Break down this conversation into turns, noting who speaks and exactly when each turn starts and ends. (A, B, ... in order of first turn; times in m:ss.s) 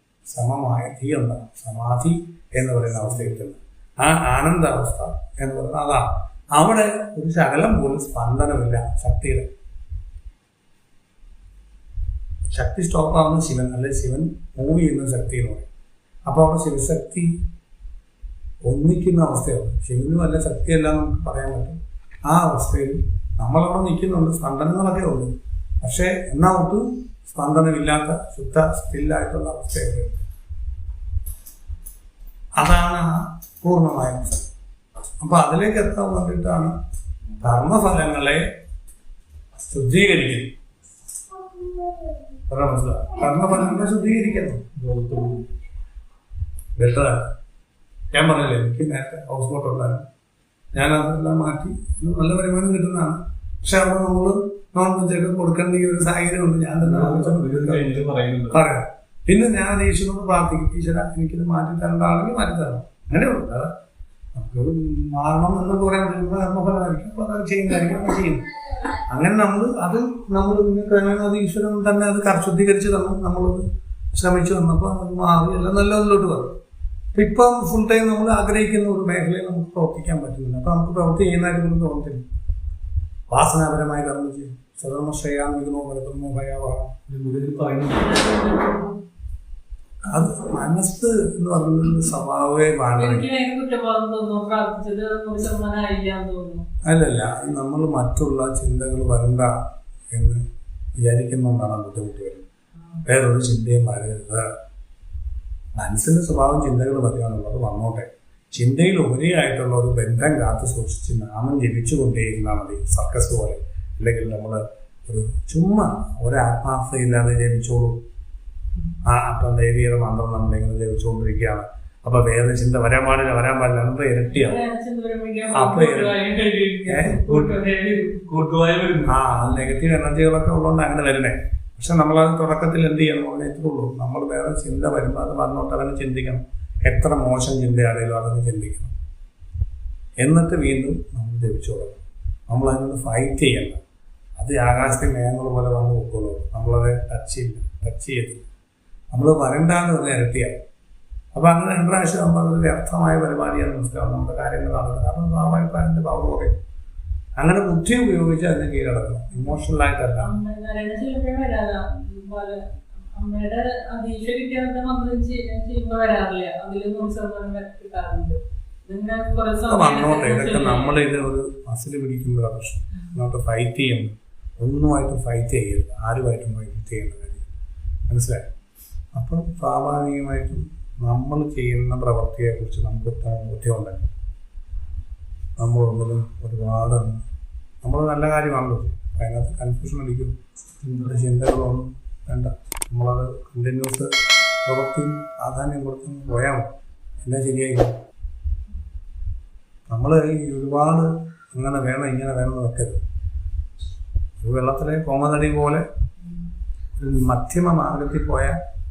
0:00.3-0:09.5 A
0:12.5-0:15.7 A
0:16.3-0:17.3 A
0:18.6-0:30.2 A
0:32.6-0:34.4 A
0:35.2-0:36.7 A
0:37.4-0:38.4 A
0:39.6-0:40.5 A
0:42.5-0:44.6 A
0:44.8-0:45.4 B
0:46.8-0:47.2 A
0:48.1-0:50.0 A
0:50.7-1:03.7 A
0:56.8-0:58.6 B
1:04.3-1:08.5 A
1:09.1-1:16.5 A
1:17.1-1:22.2 A
1:23.3-1:26.9 A
1:27.1-1:28.3 B
1:28.0-1:29.0 C
1:30.0-1:33.3 A
1:33.0-1:36.6 C
1:36.8-1:39.6 A
1:40.1-1:40.4 A
1:41.0-1:42.4 A
1:43.0-1:44.5 A
1:45.7-1:58.0 A
1:59.0-2:04.6 A
2:04.3-2:08.1 C
2:05.5-2:06.1 A
2:06.9-2:07.2 A
2:07.1-2:09.1 B
2:09.0-2:18.9 A
2:20.2-2:23.8 A
2:24.4-2:28.4 A
2:29.1-2:30.6 A
2:31.3-2:36.5 A
2:37.4-2:40.4 A
2:40.2-2:42.6 C
2:43.1-2:51.1 C
2:49.6-2:57.5 A
2:58.1-2:58.4 A
2:59.1-3:04.1 A
3:05.6-3:07.2 A
3:07.8-3:14.1 A
3:10.8-3:11.2 B
3:14.6-3:16.7 A
3:17.2-3:17.9 A
3:19.9-3:23.0 A
3:24.4-3:25.8 A
3:27.0-3:28.6 A